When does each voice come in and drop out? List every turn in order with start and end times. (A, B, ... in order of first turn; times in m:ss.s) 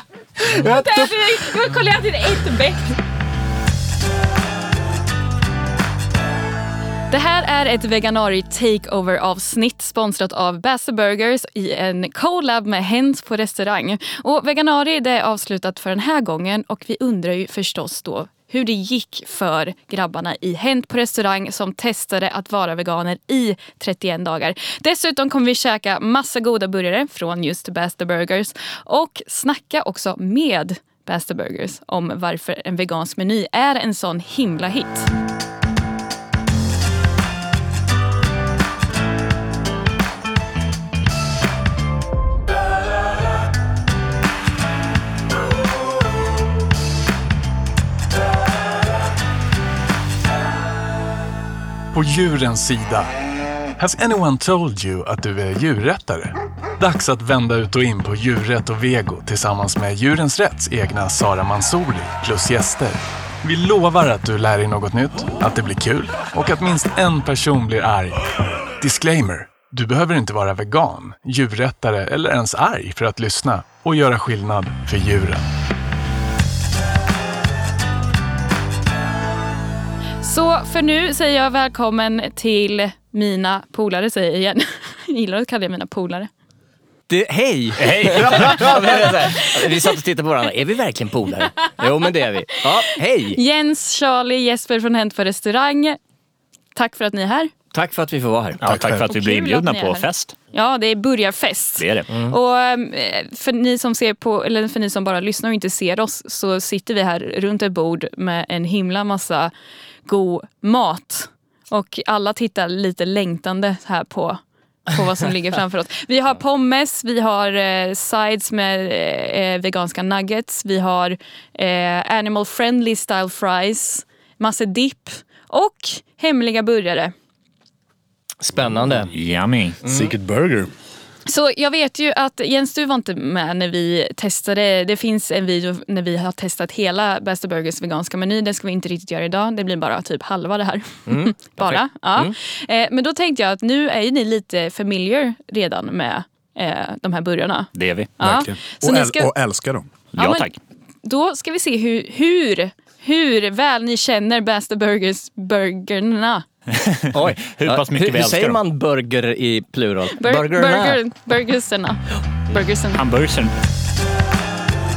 0:00.4-0:01.4 A
0:00.6-0:03.0 B
0:07.1-0:35.1 B
0:51.9-0:53.1 C
0:53.8-1:15.4 C
1:20.2-1:26.3 B
1:27.1-1:33.4 D
1:27.8-1:28.9 E
1:29.4-1:29.7 B
1:33.3-1:36.0 B
1:36.7-1:37.5 B
1:37.7-1:38.6 D
1:38.6-1:40.3 E
1:38.6-1:39.1 A
1:39.1-1:49.5 B
1:41.8-1:42.1 E
1:42.1-1:42.4 D
1:50.0-2:07.1 B
2:08.4-2:09.1 D
2:08.6-2:09.0 A
2:09.1-2:09.8 E
2:09.8-2:10.1 D
2:09.8-2:10.7 A
2:11.2-2:29.3 B
2:21.1-2:22.3 D
2:27.7-2:28.1 E
2:28.2-2:29.9 A
2:30.1-2:30.6 E
2:30.2-2:30.5 B
2:31.0-2:36.4 B
2:36.7-2:38.6 E
2:37.1-2:41.0 D
2:40.2-2:43.0 B
2:42.9-2:43.6 E